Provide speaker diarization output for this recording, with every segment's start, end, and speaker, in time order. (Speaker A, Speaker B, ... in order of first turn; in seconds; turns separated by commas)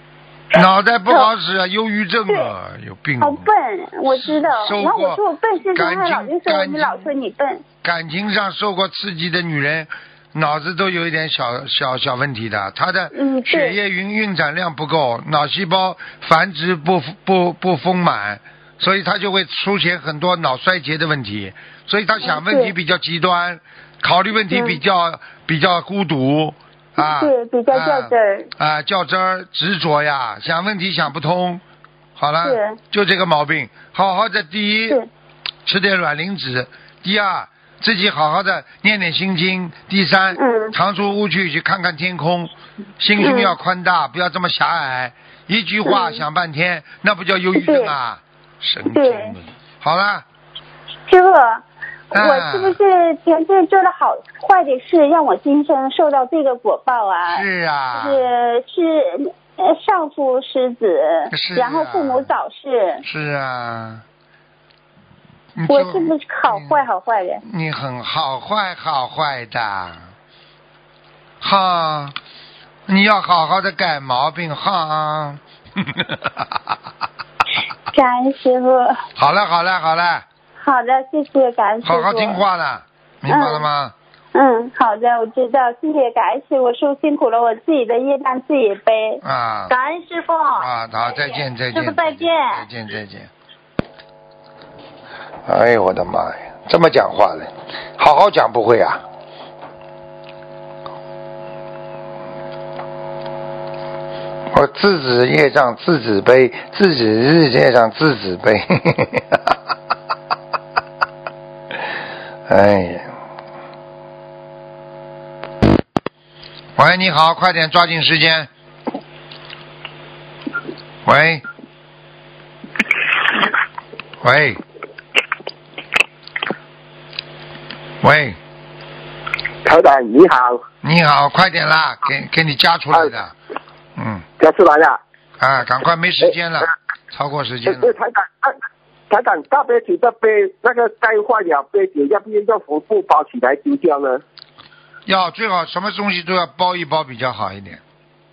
Speaker A: 0.5-3.5, Speaker B: 3.2-7.6, Speaker A: 4.2-5.2, Speaker A: 5.7-7.1, Speaker A: 7.8-31.6, Speaker B: 13.1-13.8, Speaker B: 22.2-22.7, Speaker B: 24.5-24.8, Speaker B: 27.0-28.5, Speaker A: 32.1-35.0, Speaker B: 32.4-32.8, Speaker A: 35.6-50.2, Speaker B: 40.3-40.7, Speaker B: 43.2-43.5, Speaker B: 45.9-46.2, Speaker B: 47.6-47.9, Speaker B: 48.9-49.3, Speaker B: 51.1-63.0, Speaker A: 52.1-52.8, Speaker A: 57.3-58.3, Speaker A: 61.3-62.3, Speaker A: 63.0-64.0, Speaker A: 65.5-66.8, Speaker B: 65.7-67.4, Speaker A: 67.4-70.1, Speaker A: 71.4-72.2, Speaker A: 72.9-76.7, Speaker B: 77.9-79.0, Speaker A: 79.2-80.2, Speaker B: 80.6-82.4, Speaker A: 81.8-83.9, Speaker B: 83.3-83.7, Speaker B: 84.3-90.7, Speaker A: 89.2-89.7, Speaker A: 90.6-93.3, Speaker B: 91.7-92.6, Speaker A: 95.5-99.0, Speaker A: 104.5-109.5, Speaker A: 112.5-113.1, Speaker A: 116.8-118.5, Speaker A: 121.0-121.4, Speaker A: 124.2-124.6, Speaker A: 128.0-128.4, Speaker C: 129.6-130.6, Speaker A: 130.8-133.3, Speaker A: 133.9-134.2, Speaker C: 134.4-135.0, Speaker A: 135.4-137.9, Speaker C: 137.7-138.6, Speaker C: 139.1-144.2, Speaker A: 145.1-147.8